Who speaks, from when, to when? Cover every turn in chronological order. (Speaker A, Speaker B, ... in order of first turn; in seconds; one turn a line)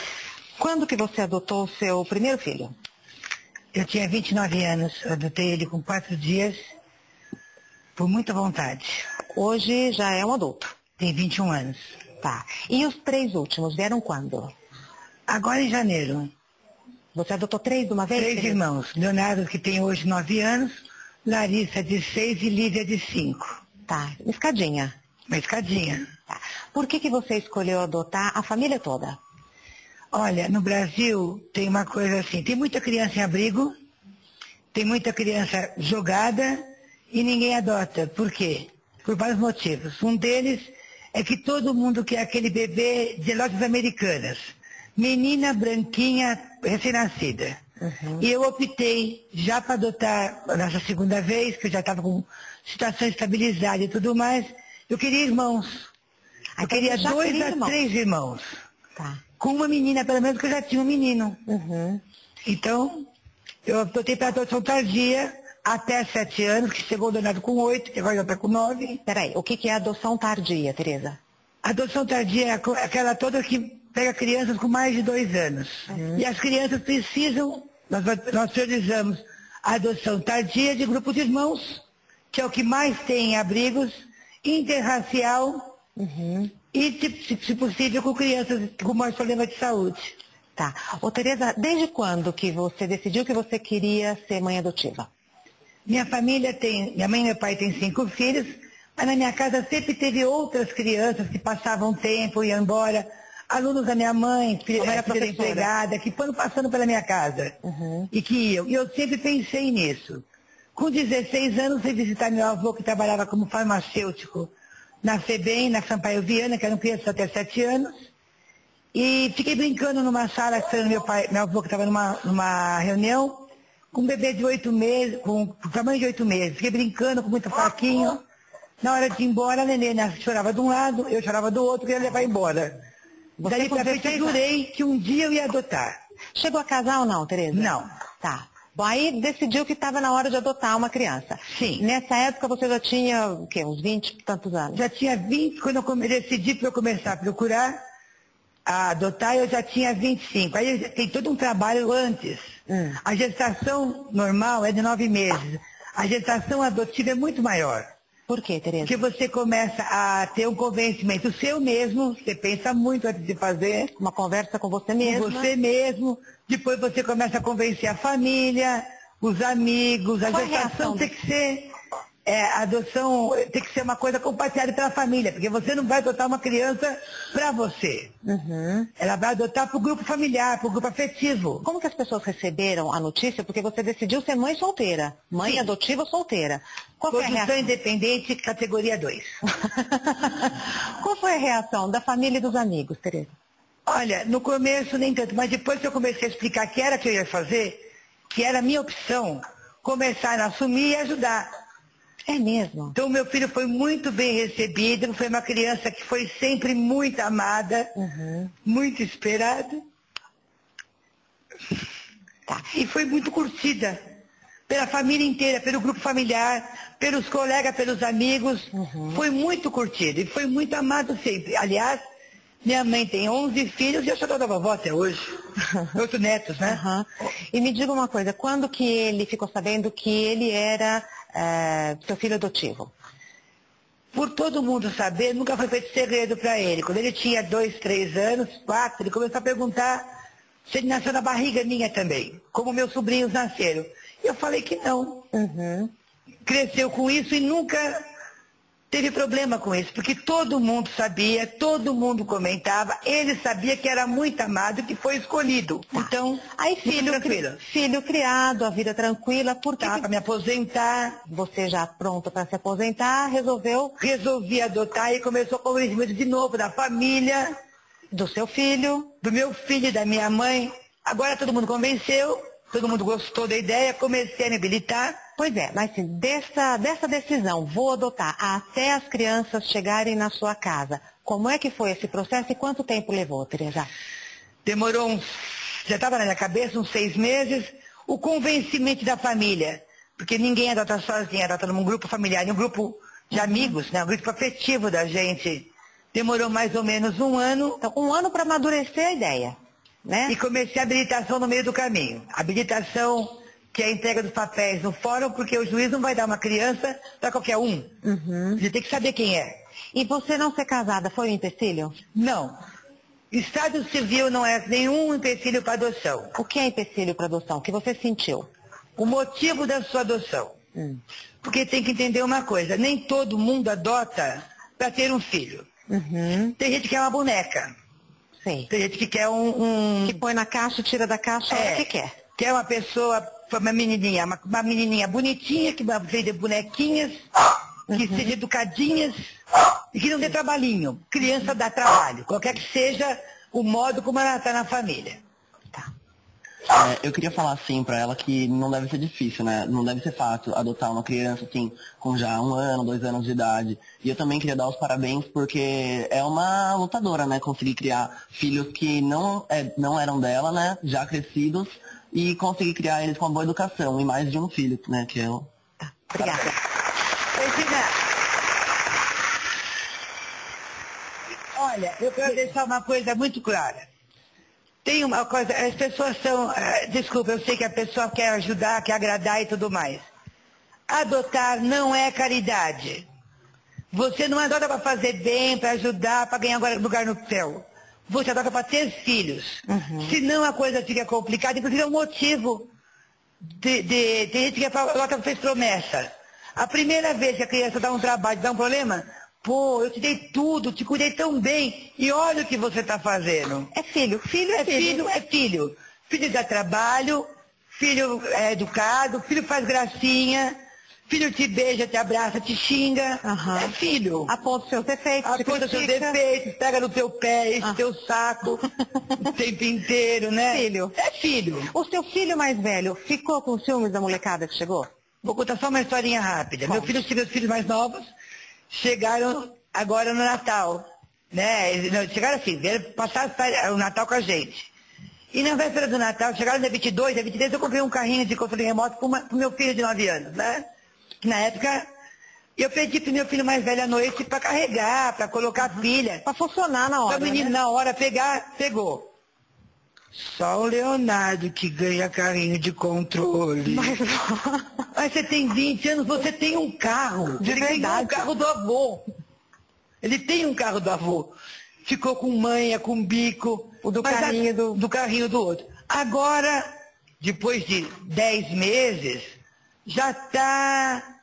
Speaker A: 0.6-2.7
Speaker B: 3.7-6.6
Speaker B: 8.0-9.0
Speaker A: 9.3-10.8
Speaker B: 11.0-11.9
Speaker A: 12.2-14.5
Speaker B: 15.3-16.3
Speaker A: 17.1-18.6
Speaker B: 18.1-23.6
Speaker A: 23.9-24.9
Speaker B: 25.3-26.1
Speaker A: 26.3-29.2
Speaker B: 30.1-33.7
Speaker B: 34.7-47.6
Speaker A: 47.8-48.2
Speaker B: 48.2-55.9
Speaker A: 56.6-57.8
Speaker B: 56.6-58.5
Speaker B: 59.4-61.4
Speaker A: 61.5-62.0
Speaker B: 62.4-63.1
Speaker B: 63.6-69.0
Speaker A: 69.0-71.2
Speaker B: 71.6-85.6
Speaker A: 75.9-76.2
Speaker A: 86.0-86.5
Speaker B: 86.7-90.1
Speaker A: 90.6-95.1
Speaker B: 95.9-107.5
Speaker A: 104.7-105.7
Speaker A: 107.6-108.1
Speaker B: 108.1-110.2
Speaker B: 110.8-114.5
Speaker B: 115.0-118.1
Speaker B: 118.9-128.2
Speaker B: 128.8-132.8
Speaker A: 133.4-134.4
Speaker B: 133.4-136.0
Speaker A: 136.3-144.8
Speaker B: 137.5-137.9
Speaker B: 141.5-141.8
Speaker B: 144.7-147.8
Speaker B: 148.7-157.9
Speaker A: 152.7-153.0
Speaker A: 158.3-158.9
Speaker B: 158.8-163.9
Speaker A: 164.0-165.5
Speaker B: 165.0-171.7
Speaker A: 170.3-171.1
Speaker B: 172.2-178.1
Speaker A: 178.2-178.9
Speaker B: 179.0-181.6
Speaker A: 181.6-187.7
Speaker B: 187.1-189.4
Speaker A: 189.6-193.3
Speaker B: 193.8-197.8
Speaker B: 198.3-201.5
Speaker A: 202.2-202.9
Speaker B: 202.9-207.9
Speaker A: 207.9-208.5
Speaker B: 208.6-209.8
Speaker B: 212.7-214.0
Speaker B: 214.7-222.0
Speaker A: 218.7-219.2
Speaker B: 222.6-225.4
Speaker B: 225.9-226.8
Speaker A: 226.7-232.9
Speaker B: 234.1-240.0
Speaker B: 240.7-245.2
Speaker A: 245.3-245.9
Speaker B: 246.4-248.0
Speaker B: 248.9-257.6
Speaker A: 255.9-260.1
Speaker B: 259.8-261.2
Speaker A: 261.3-263.9
Speaker B: 264.0-267.5
Speaker A: 268.1-269.1
Speaker B: 269.2-275.2
Speaker A: 275.4-283.9
Speaker B: 284.6-297.8
Speaker A: 297.8-300.3
Speaker B: 300.3-307.9
Speaker A: 308.0-308.6
Speaker B: 308.6-309.5
Speaker A: 309.9-312.0
Speaker B: 312.1-312.6
Speaker B: 313.3-316.3
Speaker A: 316.3-318.5
Speaker B: 319.0-320.6
Speaker B: 321.4-325.7
Speaker A: 325.9-326.5
Speaker B: 326.6-327.7
Speaker A: 328.4-328.7
Speaker B: 328.7-330.2
Speaker A: 330.0-332.1
Speaker B: 331.5-337.2
Speaker B: 337.9-339.2
Speaker A: 337.9-338.3
Speaker B: 339.9-345.2
Speaker C: 346.7-365.5
Speaker A: 365.8-366.6
Speaker B: 367.4-367.9
Speaker B: 371.5-373.9
Speaker B: 374.8-380.1
Speaker B: 380.9-383.0
Speaker B: 383.9-392.7
Speaker A: 389.7-390.1
Speaker B: 393.5-403.7
Speaker A: 403.7-405.0
Speaker B: 404.6-410.5
Speaker B: 411.1-414.3
Speaker A: 413.2-413.7
Speaker A: 414.3-416.2
Speaker B: 415.2-418.6
Speaker B: 419.2-421.7
Speaker A: 420.5-420.9
Speaker A: 421.7-424.9
Speaker B: 425.2-428.1
Speaker A: 426.7-426.9
Speaker B: 428.7-434.7
Speaker B: 435.3-440.6
Speaker B: 441.2-441.9
Speaker B: 442.6-446.2
Speaker A: 446.2-447.5
Speaker B: 447.1-449.1
Speaker B: 450.1-454.0
Speaker A: 453.6-454.8
Speaker B: 454.9-459.0
Speaker A: 457.4-458.3
Speaker B: 460.0-466.7
Speaker A: 463.8-464.8
Speaker B: 467.2-469.3
Speaker B: 469.8-471.0